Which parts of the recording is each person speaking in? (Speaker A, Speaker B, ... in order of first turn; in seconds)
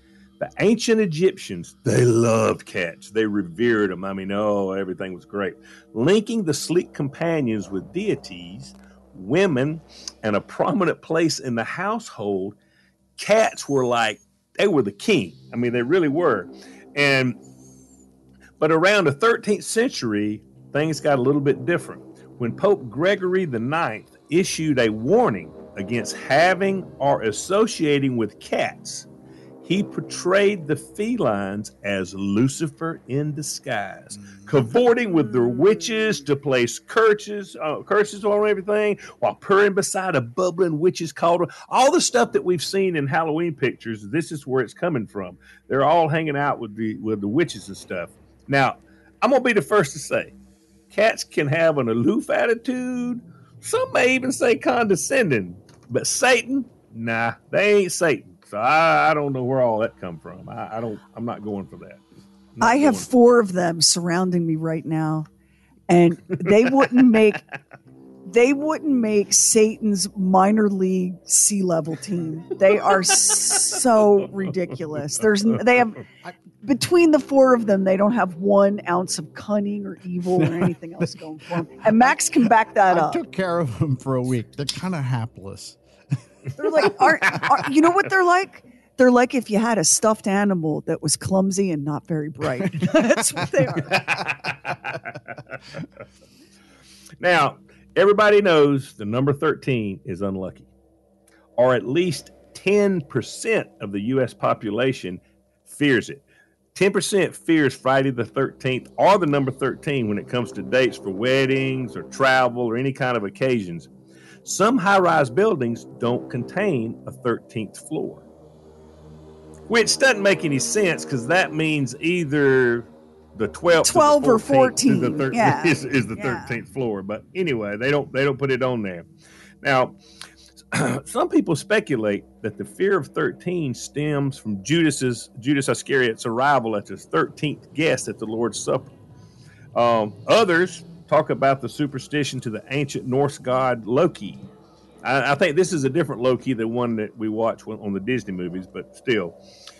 Speaker A: 0.4-12.6, 13.2-17.4, 18.6-29.1, 29.6-50.3, 50.9-62.0, 62.5-63.0, 93.8-95.5, 97.2-100.7, 101.5-113.9, 114.4-118.2, 119.7-129.1, 129.6-129.9, 130.7-138.9, 139.7-144.4, 145.0-149.3
Speaker B: 62.6-65.3, 65.9-67.4, 68.3-76.0, 76.6-83.2, 86.5-94.2, 123.8-126.6
Speaker C: 80.3-81.0, 81.8-82.1, 82.9-85.8, 86.8-87.6